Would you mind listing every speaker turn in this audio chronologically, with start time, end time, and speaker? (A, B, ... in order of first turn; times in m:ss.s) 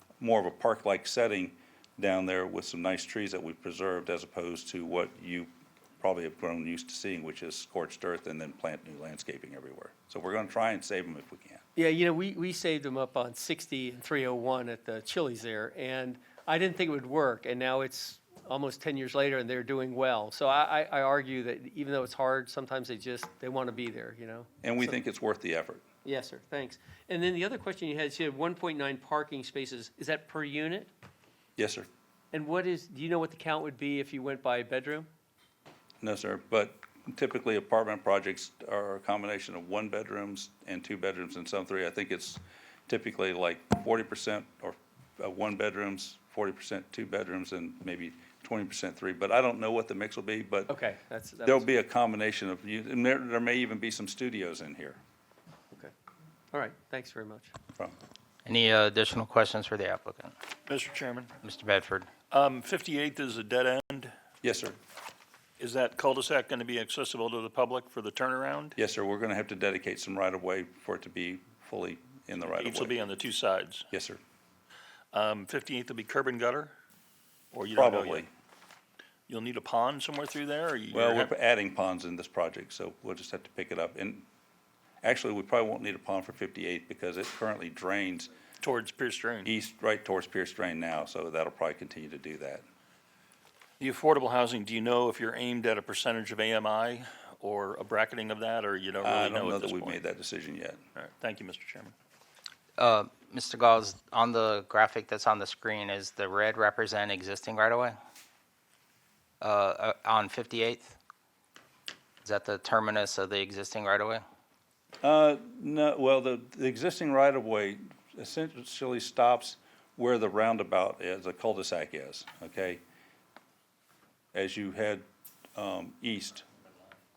0:00.2-0:11.6 A
0:11.8-0:25.0 B
0:24.6-0:25.8 A
0:26.0-0:30.9 B
0:31.6-0:31.9 A
0:32.3-0:35.1 B
0:36.0-0:50.7 A
0:50.7-0:51.7 B
0:51.4-0:55.0 A
0:56.5-0:57.5 B
0:58.4-1:00.3 C
1:00.7-1:01.3 D
1:01.4-1:02.1 C
1:02.3-1:04.1 D
1:04.4-1:04.8 A
1:05.6-1:08.7 D
1:08.8-1:13.0 A
1:12.5-1:13.9 D
1:13.9-1:14.2 A
1:15.1-1:16.7 D
1:17.5-1:18.2 D
1:17.7-1:18.3 A
1:19.3-1:21.3 D
1:20.9-1:24.2 A
1:25.0-1:28.3 A
1:28.6-1:29.5 D
1:29.4-1:32.6 A
1:33.8-1:40.0 D
1:39.0-1:40.8 A
1:41.0-1:41.9 D
1:42.8-1:48.0 C
1:49.4-1:51.0 C
1:52.2-1:54.2 C
1:55.0-2:02.8 A
2:04.3-2:05.0 A
2:05.6-2:06.4 A